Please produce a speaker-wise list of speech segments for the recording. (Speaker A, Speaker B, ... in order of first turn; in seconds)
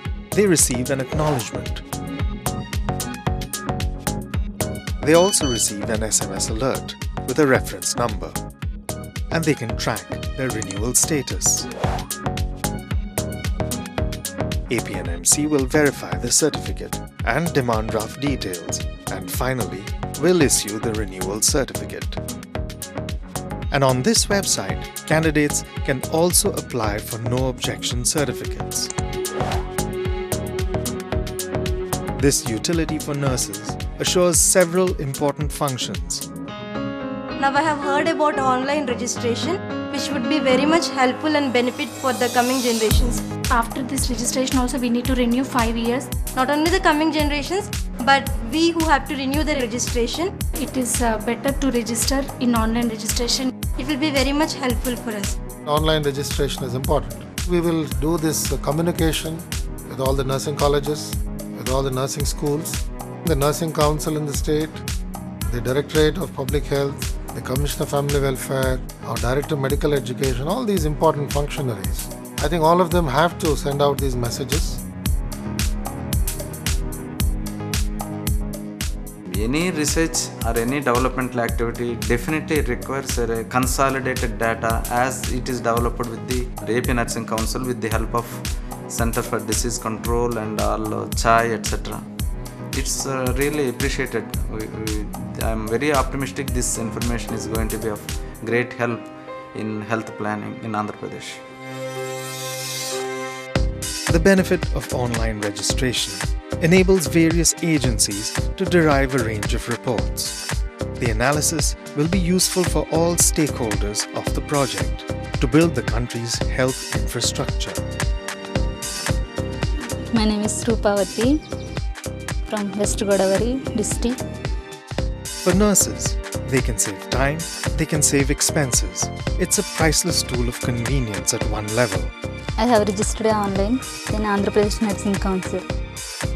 Speaker A: 0.3-1.8, 5.0-8.4, 9.3-11.7, 14.7-22.2, 23.7-28.9, 32.2-36.2, 104.1-110.4, 111.0-117.8, 125.4-132.1
Speaker B: 37.4-43.2, 46.3-50.3, 53.7-55.3
Speaker C: 43.4-46.2, 50.5-53.5
Speaker D: 55.6-64.8, 65.5-74.8
Speaker E: 79.3-92.0, 92.7-101.4
Speaker F: 120.1-121.4, 122.5-124.2, 132.6-135.7